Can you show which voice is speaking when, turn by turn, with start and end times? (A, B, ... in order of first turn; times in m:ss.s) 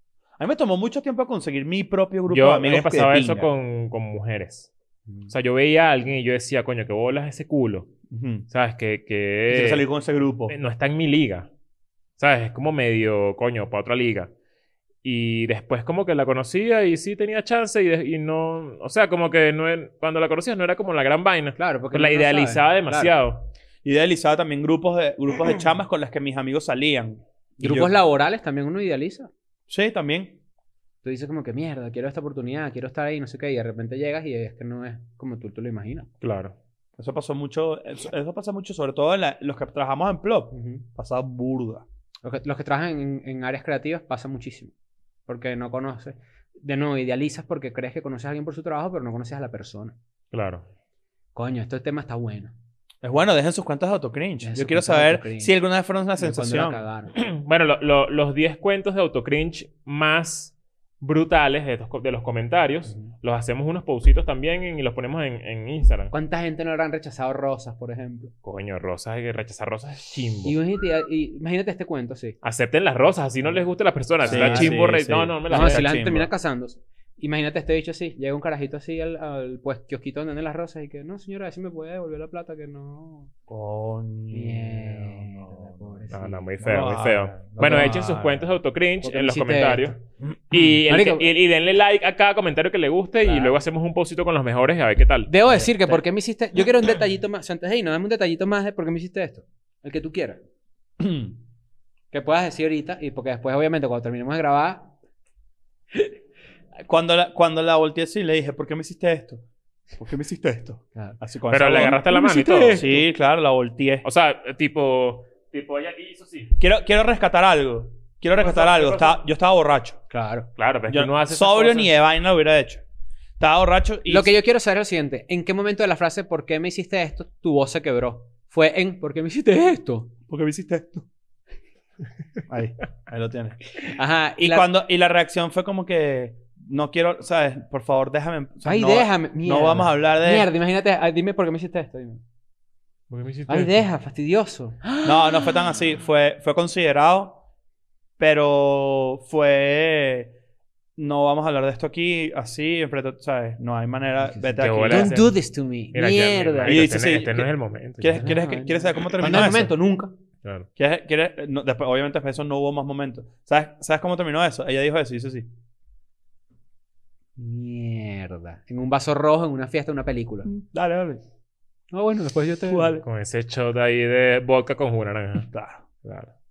0:00.4-0:03.5 A
0:02.3-0:04.7 B
0:05.3-0:07.9 B
0:08.1-0:08.4 A
0:08.5-0:09.8 B
0:09.5-0:10.5 A
0:10.5-0:11.5 B
0:12.2-0:14.3 B
0:15.0-0:23.5 B
0:21.6-0:23.1 C
0:23.8-0:28.0 A
0:27.6-0:29.3 C
0:29.7-0:30.4 A
0:31.0-0:36.1 C
0:36.2-0:36.6 B
0:37.0-0:41.8 A
0:40.5-0:40.8 C
0:42.2-0:44.7 C
0:45.3-0:50.0 C
0:50.3-0:50.6 B
0:51.3-0:52.5 C
0:53.0-0:56.8 A
0:54.4-0:55.5 C
0:56.2-0:57.1 C
0:57.1-1:06.1 B
1:06.1-1:08.3 C
1:08.4-1:10.6 B
1:10.4-1:12.3 C
1:12.4-1:15.9 B
1:14.2-1:14.8 C
1:14.2-1:16.3 A
1:15.5-1:23.3 C
1:23.5-1:26.0 A
1:24.3-1:26.4 C
1:26.1-1:30.0 B
1:26.6-1:28.5 A
1:27.6-1:28.0 C
1:29.0-1:30.0 C
1:30.5-1:35.3 B
1:30.9-1:31.3 C
1:33.2-1:33.5 C
1:35.3-1:40.4 C
1:41.0-1:41.4 A
1:42.1-1:44.9 C
1:46.8-1:49.4 A
1:49.9-1:52.0 A
1:51.5-1:52.9 B
1:51.8-1:53.0 C
1:52.7-1:54.0 A
1:54.0-1:56.5 B
1:56.6-2:00.0 A
1:58.4-1:59.2 B
2:00.1-2:00.5 C
2:00.6-2:01.9 B
2:00.9-2:02.8 A
2:03.4-2:04.3 A
2:04.0-2:10.1 C
2:10.3-2:11.0 A
2:12.5-2:13.6 A
2:13.8-2:14.7 C
2:14.4-2:20.5 A
2:18.6-2:22.2 C
2:23.1-2:23.8 B
2:23.5-2:25.6 C
2:25.0-2:27.4 A
2:28.2-2:30.3 A
2:31.0-2:35.2 A
2:34.3-2:36.9 C
2:34.6-2:35.4 B
2:35.9-2:38.3 B
2:36.6-2:39.8 A
2:38.2-2:40.1 C
2:40.8-2:45.5 A
2:47.4-2:50.5 C
2:50.5-2:51.2 A
2:51.9-2:52.9 C
2:52.7-2:53.0 A
2:53.0-2:55.5 B
2:55.4-2:55.8 A
2:56.0-2:56.3 B